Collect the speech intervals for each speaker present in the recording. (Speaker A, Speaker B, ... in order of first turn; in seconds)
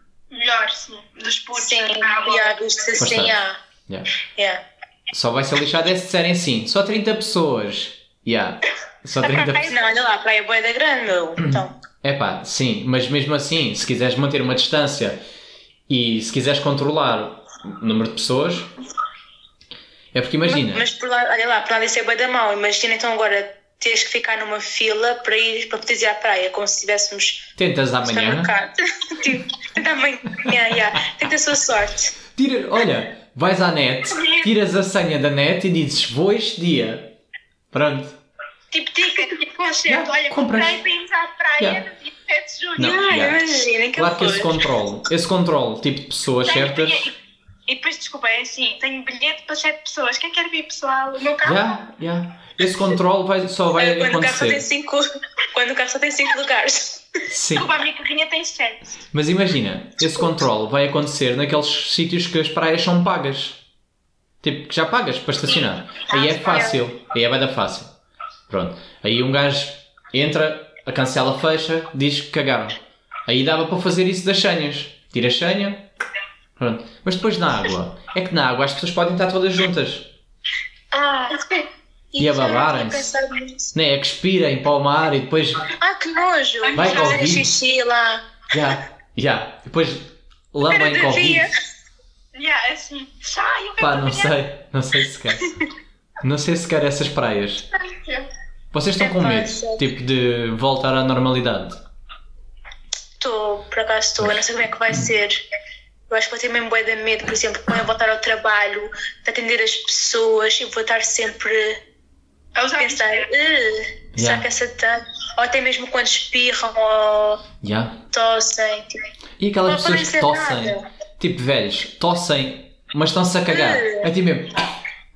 Speaker A: 0.3-2.6, 9.2-10.1, 38.7-43.0, 46.4-47.1, 47.7-51.8, 57.5-59.0, 65.5-66.8, 86.6-87.4, 92.3-94.3, 97.7-98.3, 112.5-113.3
Speaker B: 1.5-3.6, 4.3-4.6, 9.3-11.7, 20.5-27.5, 28.0-32.1, 42.8-44.6, 53.8-57.0, 80.9-83.7, 85.8-88.4, 90.7-91.5, 99.0-99.8, 103.2-105.4, 106.1-111.8, 112.8-117.4, 118.1-119.0, 119.7-120.8, 123.5-124.1
Speaker C: 3.0-4.1, 5.1-9.7, 11.4-15.2, 15.9-18.7, 20.1-20.9, 27.6-28.5, 32.3-37.1, 37.7-38.2, 39.9-40.8, 42.8-43.4, 44.0-47.1, 51.4-54.6, 57.3-57.7, 59.1-63.6, 64.4-67.9, 68.5-75.9, 76.6-80.1, 82.2-83.1, 83.7-85.7, 86.7-87.5, 88.5-91.5, 93.8-95.5, 96.2-97.7, 98.7-101.8, 104.2-105.1, 114.1-114.4, 117.6-118.0, 119.4-124.7